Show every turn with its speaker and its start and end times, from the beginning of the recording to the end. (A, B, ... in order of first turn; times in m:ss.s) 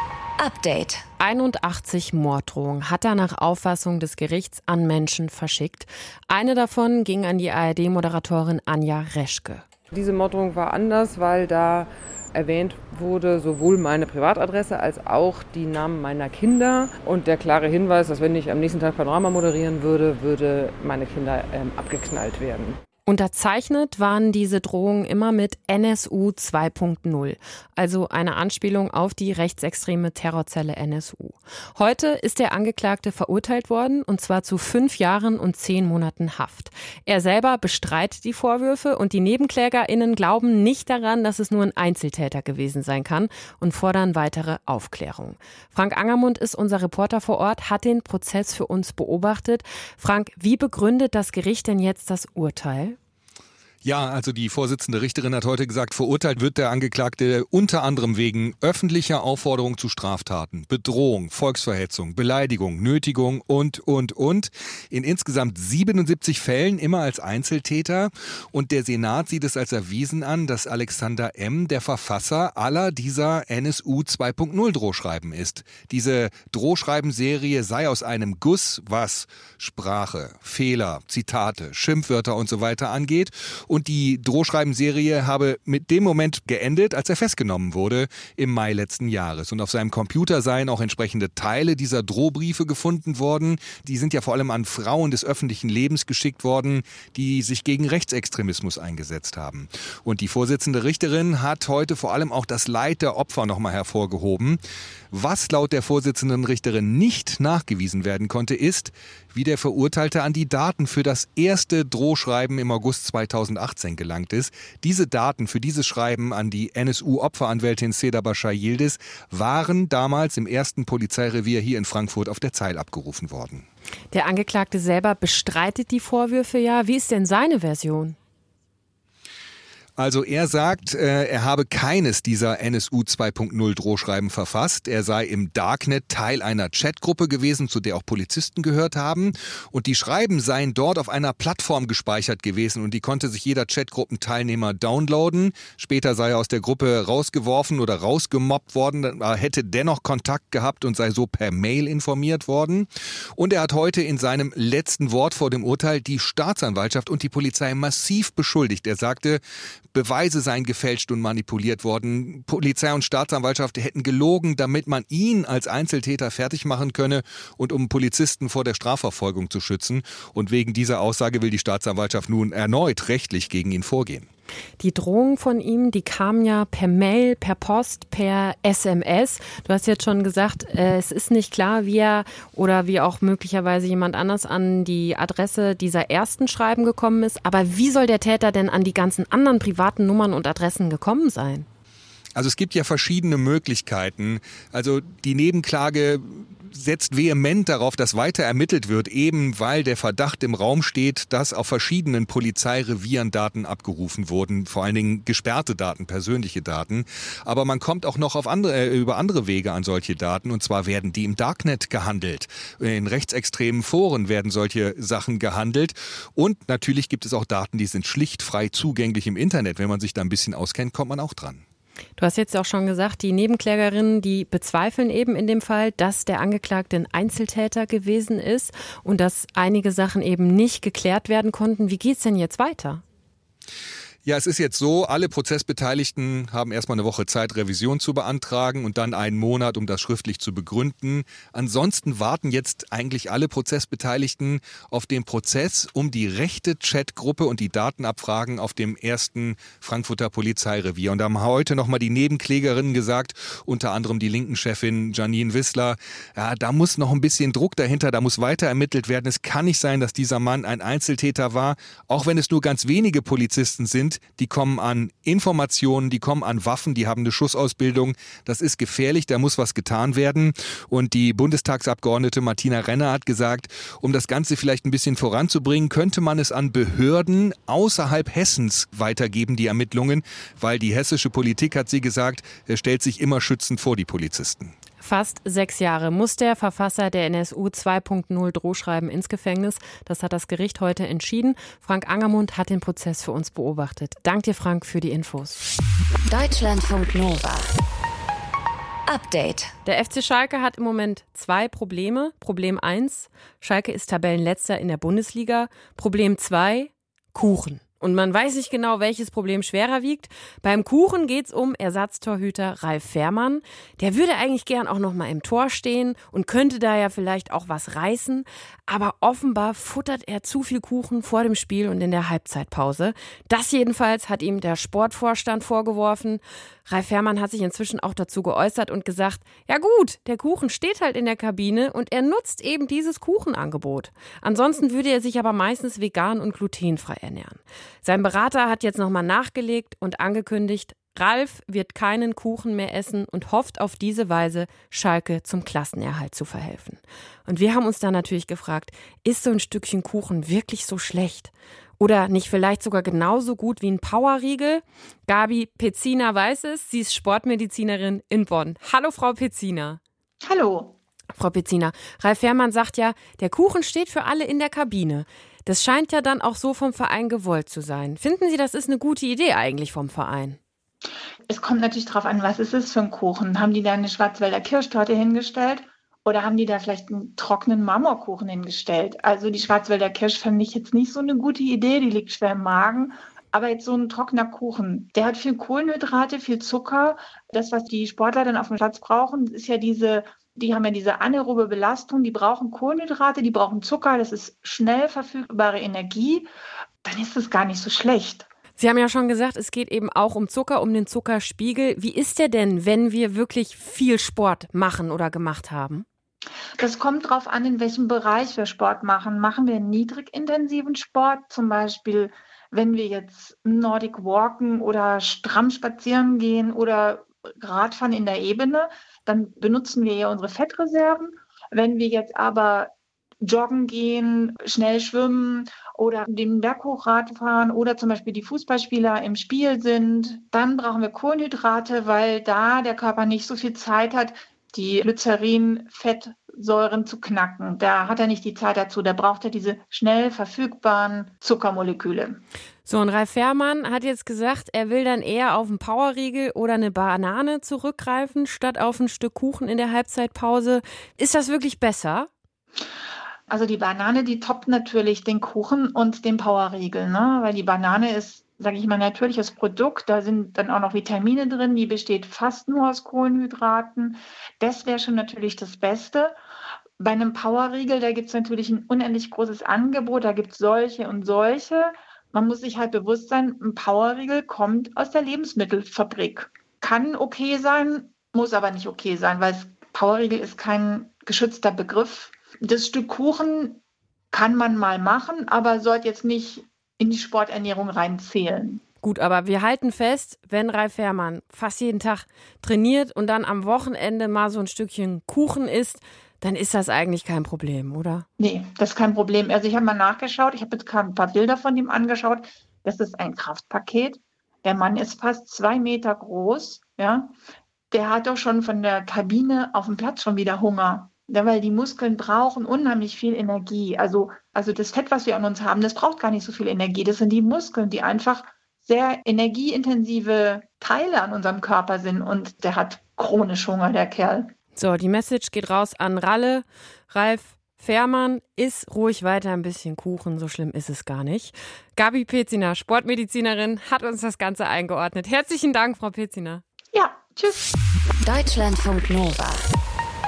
0:00.4-0:01.0 A
0:01.2-0:09.6 B
0:09.9-0:22.8 C
0:23.1-0:53.0 B
0:53.8-1:44.6 D
1:45.1-2:03.6 D
2:04.1-2:08.2 B
2:10.0-2:39.4 D
2:39.9-2:54.3 D
2:54.8-3:11.7 B
3:12.3-3:41.6 D
3:42.2-3:53.0 B
3:54.2-4:44.7 D
4:45.0-4:55.6 B
4:56.3-4:57.7 A
4:59.1-4:59.7 A
4:59.8-6:00.0 B
6:00.4-6:00.9 E
6:01.3-6:10.6 B
6:11.5-6:36.5 E
6:37.0-6:38.5 E
6:38.8-6:46.1 B
6:46.8-7:22.4 E
7:22.8-7:32.3 B
7:33.5-7:46.4 E
7:47.0-8:03.8 E
8:04.3-8:08.8 E
8:09.0-8:18.3 B
8:18.4-8:27.3 E
8:27.9-8:44.5 E
8:44.8-8:56.6 B
8:56.9-8:57.7 E
8:58.2-8:59.6 A